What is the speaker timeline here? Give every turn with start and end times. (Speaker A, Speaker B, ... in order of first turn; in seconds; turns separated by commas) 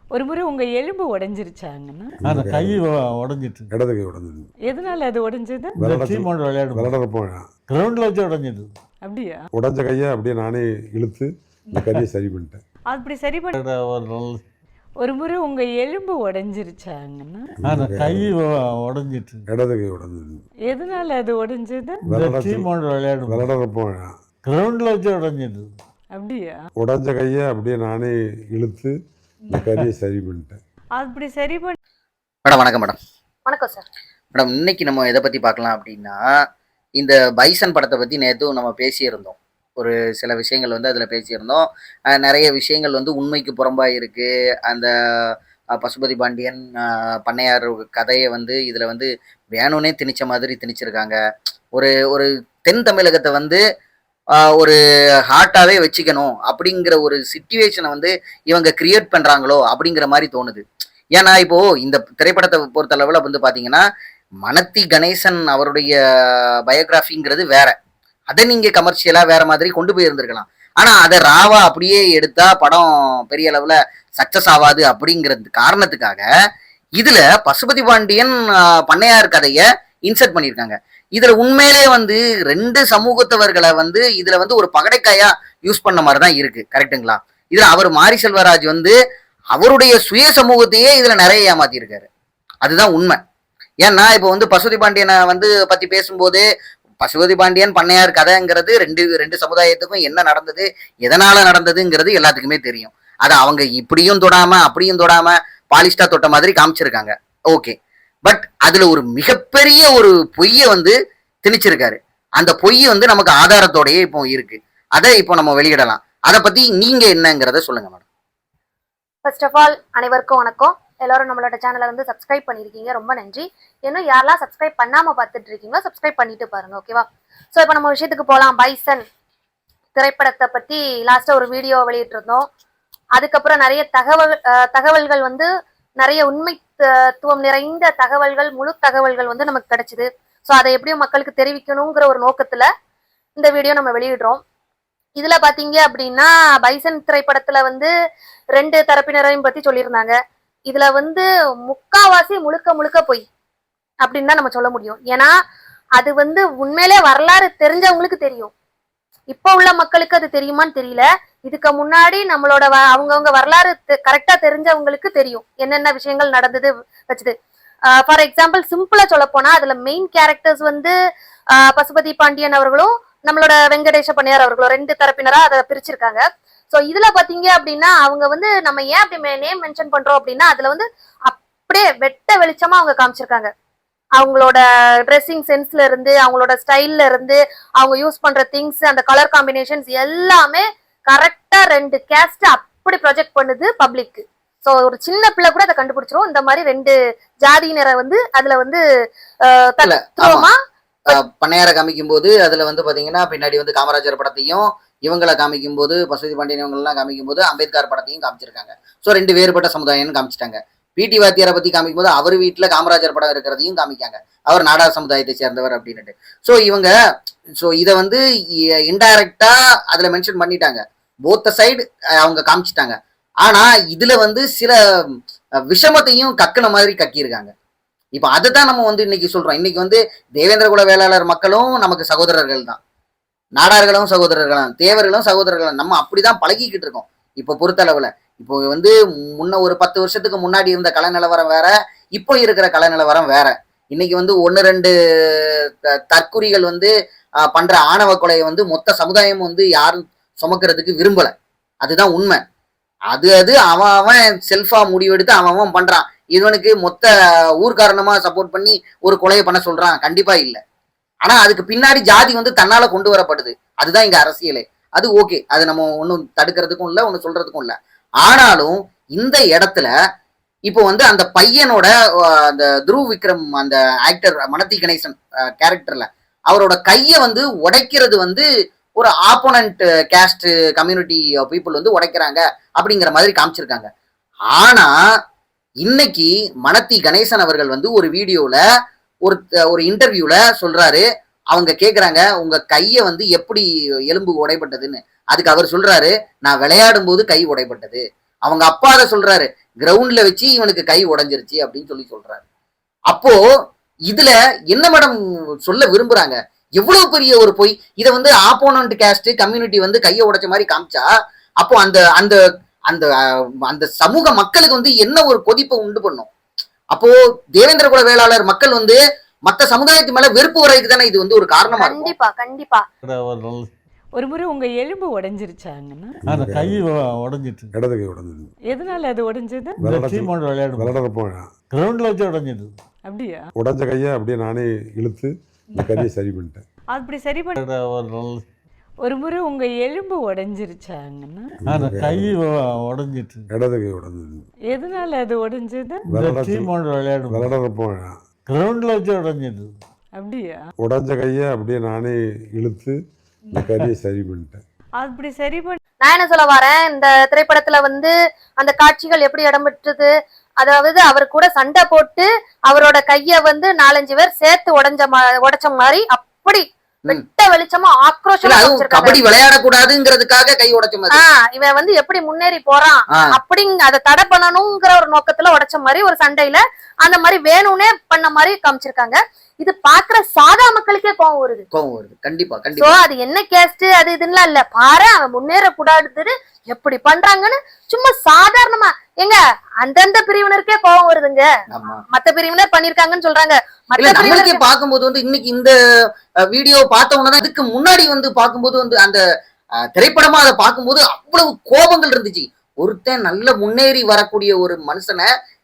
Speaker A: 0.1-2.2, Speaker B: 2.2-2.8, Speaker C: 2.2-3.7, Speaker B: 3.7-4.5, Speaker A: 4.7-5.7, Speaker B: 5.8-7.4, Speaker C: 5.8-7.0, Speaker C: 7.7-8.7, Speaker A: 9.0-9.4, Speaker B: 9.5-12.6, Speaker A: 12.9-13.6, Speaker C: 13.5-14.4, Speaker A: 15.0-17.6, Speaker B: 17.6-18.3, Speaker C: 17.7-19.4, Speaker B: 19.5-20.4, Speaker A: 20.7-22.0, Speaker B: 22.1-22.7, Speaker C: 22.1-23.5, Speaker B: 23.3-24.1, Speaker C: 24.4-25.7, Speaker A: 26.1-26.6, Speaker B: 26.8-28.9, Speaker B: 29.5-30.6, Speaker A: 31.0-31.8, Speaker D: 32.5-33.0, Speaker E: 33.5-33.9, Speaker D: 34.3-36.2, Speaker D: 37.0-51.2, Speaker D: 51.7-53.6, Speaker D: 54.4-54.8, Speaker D: 55.3-60.6, Speaker D: 61.1-63.9, Speaker D: 64.4-67.8, Speaker D: 68.3-76.3, Speaker D: 77.0-89.0, Speaker D: 89.5-92.1, Speaker D: 92.6-93.2, Speaker D: 93.8-96.5, Speaker D: 97.0-118.0, Speaker E: 119.2-129.0, Speaker E: 129.9-132.5, Speaker E: 133.2-135.5, Speaker E: 136.0-142.7, Speaker E: 143.4-144.4, Speaker E: 145.2-147.9, Speaker E: 148.5-150.2, Speaker E: 150.7-153.2, Speaker E: 154.0-155.3, Speaker E: 156.0-158.5, Speaker E: 159.3-167.3, Speaker E: 167.9-170.9, Speaker E: 171.5-183.5, Speaker E: 184.2-198.8, Speaker E: 199.4-200.6, Speaker D: 199.8-200.5, Speaker D: 201.1-216.9, Speaker D: 217.6-218.2, Speaker D: 218.9-225.2, Speaker D: 225.7-227.5, Speaker D: 228.1-232.8, Speaker D: 233.6-246.9, Speaker D: 247.4-252.4, Speaker D: 253.1-260.6, Speaker D: 261.2-269.9, Speaker D: 270.7-283.9, Speaker D: 284.5-284.9, Speaker D: 285.8-288.6, Speaker D: 289.2-302.4, Speaker D: 303.1-303.4, Speaker D: 304.1-311.1, Speaker D: 311.6-316.3, Speaker D: 316.9-322.1, Speaker E: 321.8-322.9, Speaker C: 323.0-323.7, Speaker A: 324.2-326.2, Speaker B: 326.2-326.8, Speaker C: 326.3-327.7, Speaker B: 327.8-328.5, Speaker A: 328.7-329.8, Speaker B: 329.8-331.5, Speaker C: 329.8-330.9, Speaker C: 331.7-332.7, Speaker A: 333.1-333.4, Speaker B: 333.6-336.6, Speaker A: 336.9-337.6, Speaker C: 337.6-338.4, Speaker A: 339.0-341.6, Speaker B: 341.6-342.4, Speaker C: 341.7-343.5, Speaker B: 343.5-344.4, Speaker A: 344.7-346.1, Speaker B: 346.1-346.7, Speaker C: 346.1-347.5, Speaker B: 347.3-348.2, Speaker C: 348.5-349.7, Speaker A: 350.2-350.6, Speaker B: 350.8-353.0, Speaker B: 353.6-354.6, Speaker A: 355.0-355.8, Speaker E: 356.0-369.2, Speaker D: 368.4-371.2, Speaker E: 371.1-381.6, Speaker D: 381.7-382.9, Speaker E: 382.8-391.5, Speaker D: 391.7-392.0, Speaker E: 392.1-394.6, Speaker D: 394.0-395.8, Speaker D: 396.4-399.2, Speaker D: 399.9-405.3